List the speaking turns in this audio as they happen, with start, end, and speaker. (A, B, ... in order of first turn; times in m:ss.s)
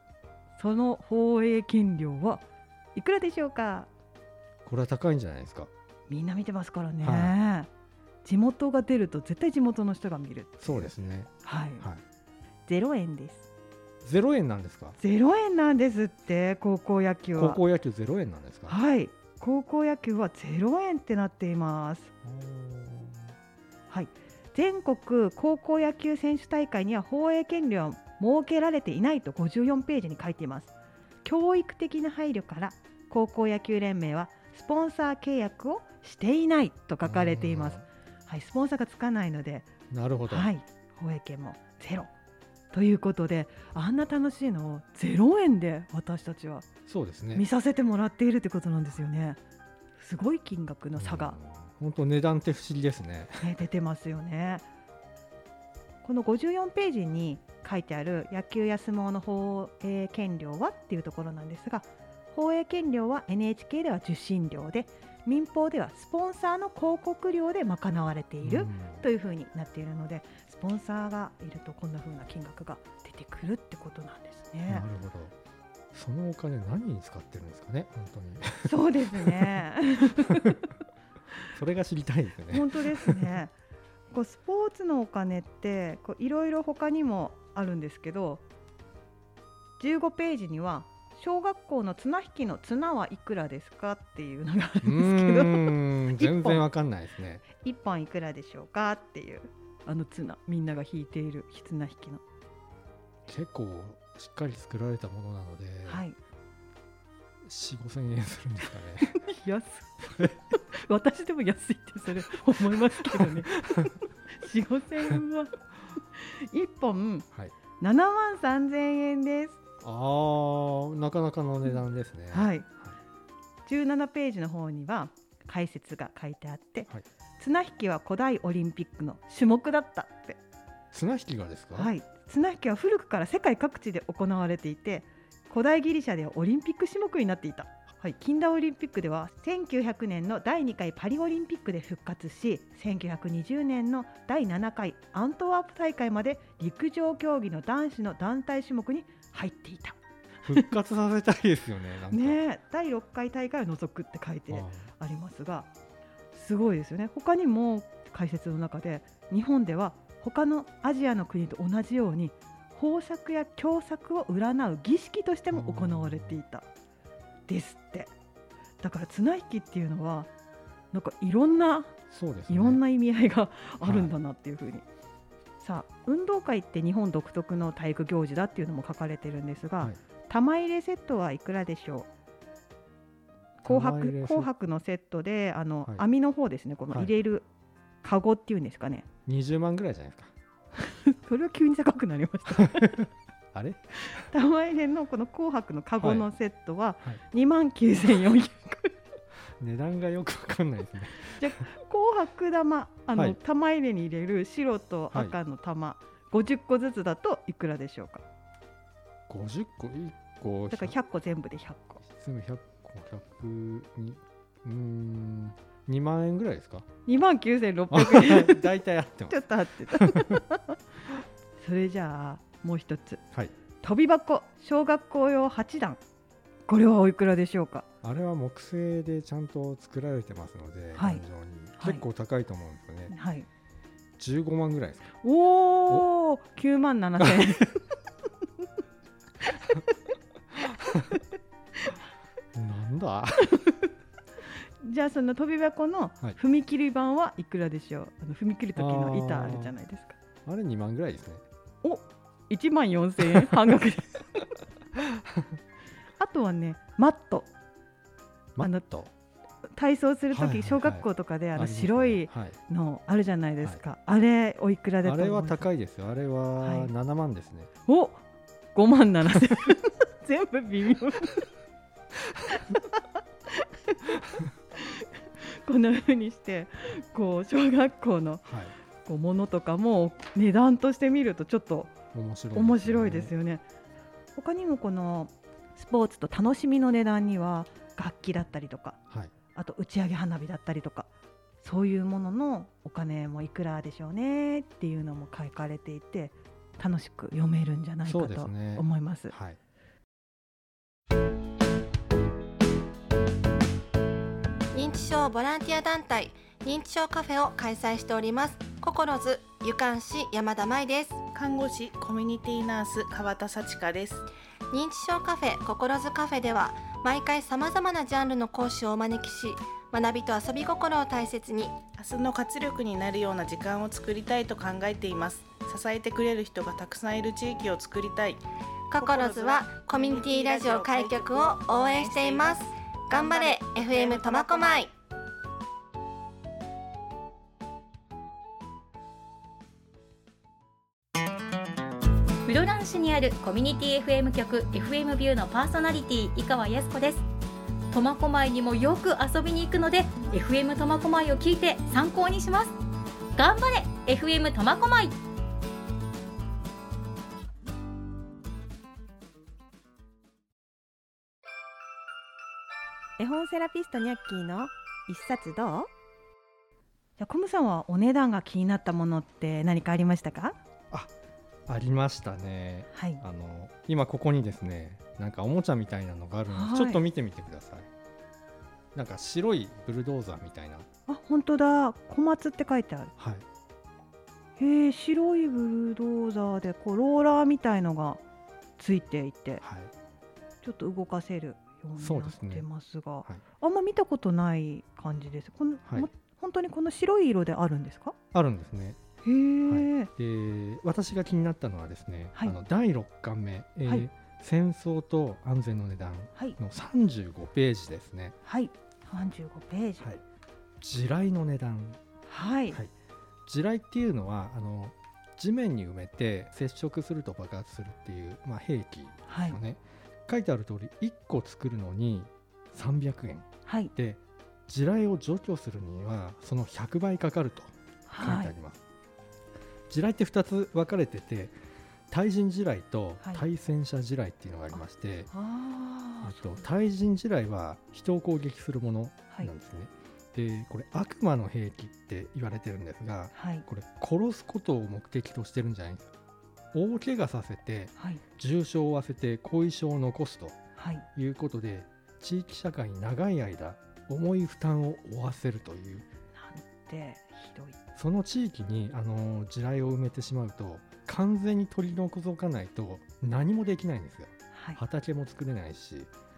0:00.6-0:02.4 A
0:02.9-0:03.9 A
0:04.6-0:05.7 B
0:06.1-0:07.7 A
0:07.0-0:07.3 B
0:08.2-0:10.9 A
0:10.6-0:12.0 B
0:11.4-0:11.8 A
0:12.6-0:13.4 A
0:14.0-0:15.0 B
0:15.0-0:17.6 A
0:17.4-0:18.8 B
0:18.7-0:22.1 A
0:22.2-0:23.3 B
0:23.9-0:30.7 A
0:31.2-0:39.7 A
0:37.0-0:37.8 B
0:39.9-0:40.5 B
0:40.3-0:42.1 A
0:42.7-0:46.7 A
0:46.9-0:47.4 B
0:47.3-0:49.4 A
0:50.0-0:51.4 A
0:51.0-0:53.5 B
0:53.4-0:54.6 A
0:56.0-1:14.8 A
1:08.4-1:09.1 B
1:14.7-1:15.3 B
1:15.9-1:19.6 B
1:18.6-1:20.6 A
1:20.2-1:20.5 B
1:21.5-1:23.3 B
1:22.5-1:23.5 A
1:24.1-1:28.4 A
1:29.8-1:36.7 A
1:34.8-1:37.5 B
1:37.5-1:42.2 A
1:43.2-1:46.0 B
1:45.8-1:46.2 A
1:47.4-1:49.2 B
1:49.1-1:57.2 A
1:50.1-1:50.4 B
1:52.6-1:53.9 B
1:57.8-1:59.6 A
1:59.8-2:03.0 B
2:02.3-2:02.6 A
2:03.6-2:10.4 A
2:10.9-2:11.9 B
2:11.7-2:30.0 A
2:30.4-2:32.4 B
2:32.1-2:35.7 A
2:34.5-2:34.9 B
2:36.3-2:46.6 A
2:45.5-2:46.4 B
2:47.5-2:48.1 A
2:48.8-2:50.3 A
2:50.9-2:54.8 A
2:52.1-2:52.8 B
2:53.8-2:54.1 B
2:55.6-3:02.1 A
3:03.6-3:04.5 B
3:03.6-3:07.5 A
3:08.0-3:09.1 A
3:09.2-3:10.3 B
3:10.8-3:13.0 A
3:12.5-3:14.3 B
3:14.0-3:18.9 A
3:16.0-3:16.3 B
3:19.6-3:21.7 B
3:21.4-3:28.2 A
3:29.3-3:31.0 B
3:30.7-3:32.0 A
3:32.0-3:36.9 B
3:37.0-3:38.6 A
3:37.9-3:40.4 B
3:39.3-3:40.8 A
3:41.6-3:43.2 A
3:43.8-3:46.0 A
3:46.7-3:47.8 A
3:48.0-3:53.1 B
3:50.9-3:51.2 A
3:51.8-3:52.0 A
3:53.1-3:53.5 A
3:54.2-3:55.1 B
3:55.2-3:57.7 A
3:57.2-3:57.6 B
4:00.6-4:01.2 B
4:02.5-4:03.6 B
4:04.8-4:10.2 A
4:08.8-4:09.7 B
4:10.4-4:11.4 B
4:11.8-4:14.4 A
4:15.0-4:15.6 B
4:16.2-4:17.5 A
4:18.6-4:19.1 B
4:19.8-4:25.7 A
4:20.3-4:22.6 B
4:25.0-4:27.7 B
4:26.6-4:26.9 A
4:27.9-4:28.2 A
4:28.7-4:31.5 A
4:34.8-4:38.4 A
4:38.4-4:38.7 B
4:39.0-4:41.9 A
4:42.1-4:43.3 B
4:42.5-4:43.6 A
4:44.4-4:49.0 A
4:49.5-4:51.1 A
4:51.6-4:59.3 A
4:58.0-4:59.6 B
5:04.7-5:11.2 C
5:11.3-5:14.2 D
5:14.7-5:21.8 C
5:22.0-5:28.4 D
5:28.9-5:34.9 C
5:29.0-5:34.9 D
5:42.4-5:47.2 E
5:47.9-5:52.7 E
5:53.4-5:55.1 E
6:03.2-6:05.9 A
6:07.2-6:10.6 A
6:11.7-6:17.9 B
6:12.9-6:13.2 A
6:16.5-6:17.0 A
6:18.9-6:20.9 B
6:21.1-6:23.1 A
6:23.2-6:23.4 B
6:24.6-6:28.2 A
6:28.8-6:29.6 A
6:29.6-6:29.9 B
6:30.6-6:38.1 A
6:32.0-6:32.6 B
6:38.3-6:39.0 B
6:39.2-6:40.1 A
6:39.7-6:48.4 B
6:42.3-6:42.6 A
6:48.4-6:50.1 A
6:50.8-6:52.0 B
6:52.3-6:52.8 A
6:53.4-7:08.8 B
6:59.3-6:59.6 A
7:03.6-7:03.9 A
7:08.1-7:08.5 A
7:09.9-7:11.6 B
7:12.1-7:15.3 B
7:15.3-7:16.6 A
7:16.2-7:26.1 B
7:23.3-7:23.6 A
7:26.7-7:30.6 B
7:28.0-7:28.2 A
7:30.8-7:31.0 A
7:31.1-7:36.0 B
7:36.4-7:37.8 A
7:37.9-7:46.1 B
7:44.5-7:44.8 A